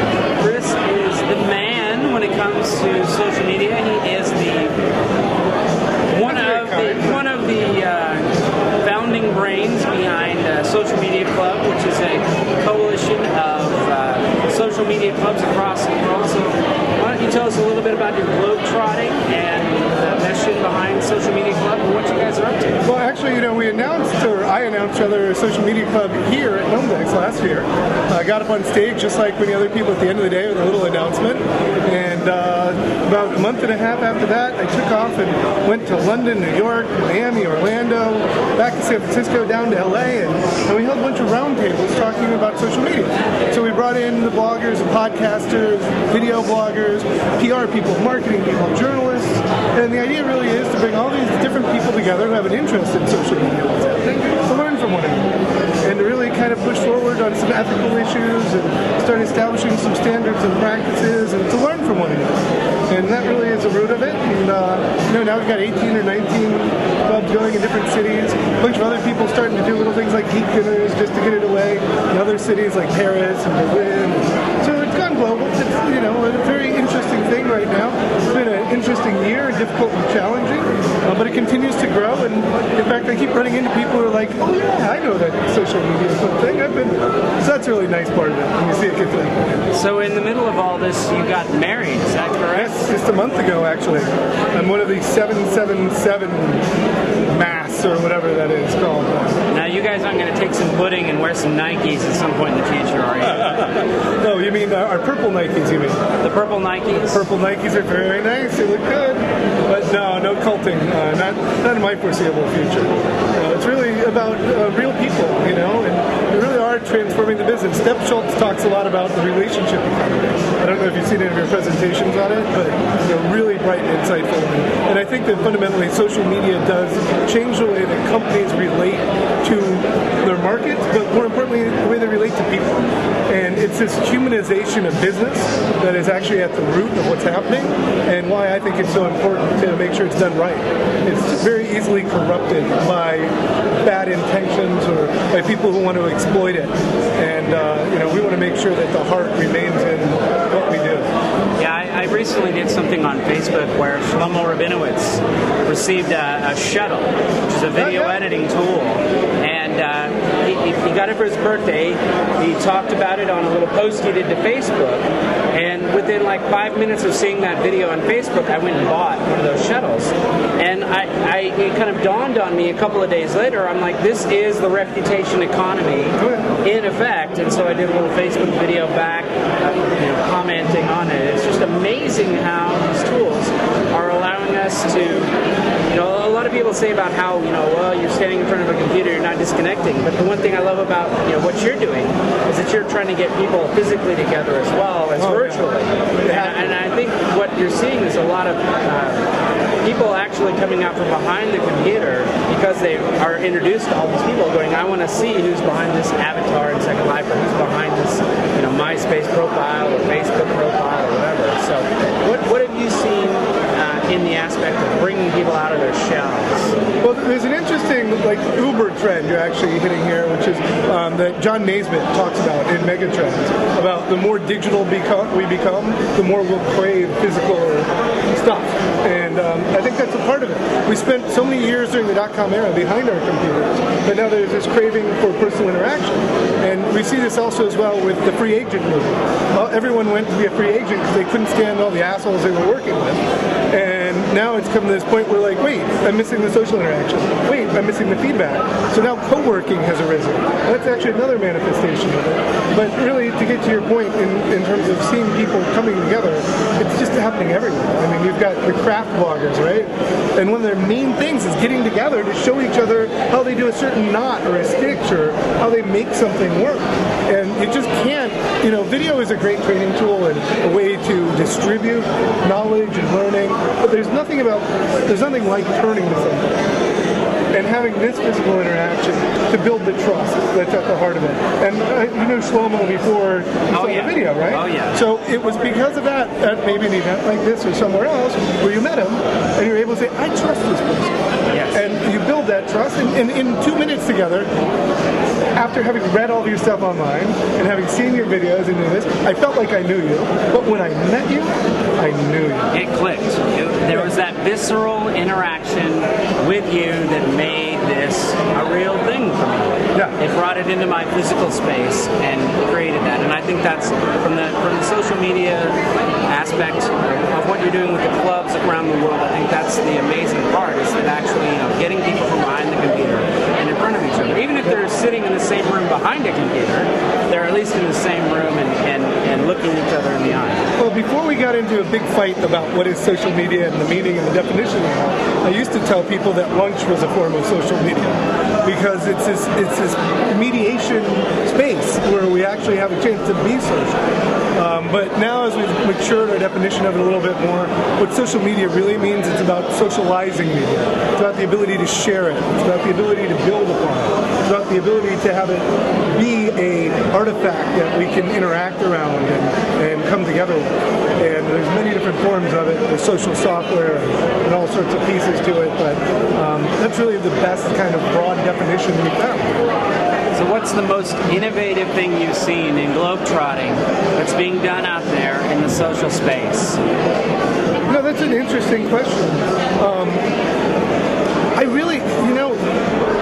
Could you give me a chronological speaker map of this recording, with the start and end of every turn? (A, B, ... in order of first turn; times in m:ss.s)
0:00.4-0:04.7 A
0:06.1-0:22.8 A
0:06.2-0:07.2 B
0:22.8-0:55.3 B
0:55.8-1:29.5 B
1:29.7-1:32.9 A
1:32.5-1:36.7 B
1:37.3-1:39.4 B
1:39.5-1:43.9 A
1:44.2-1:46.0 B
1:46.2-1:47.3 A
1:47.1-2:31.1 B
2:31.6-3:05.4 A
2:37.7-2:38.3 B
2:56.2-2:56.5 B
3:05.9-3:19.3 A
3:15.2-3:16.8 B
3:19.8-3:36.8 A
3:37.0-4:36.5 B
4:37.5-4:51.1 B
4:43.7-4:45.0 A
4:51.5-4:51.8 A
4:51.7-4:54.5 B
4:55.6-5:02.7 B
5:02.7-5:15.8 A
5:16.3-5:30.6 A
5:30.8-5:44.0 B
5:44.6-6:09.5 B
6:10.3-6:16.8 A
6:17.9-6:20.2 B
6:21.6-6:22.7 B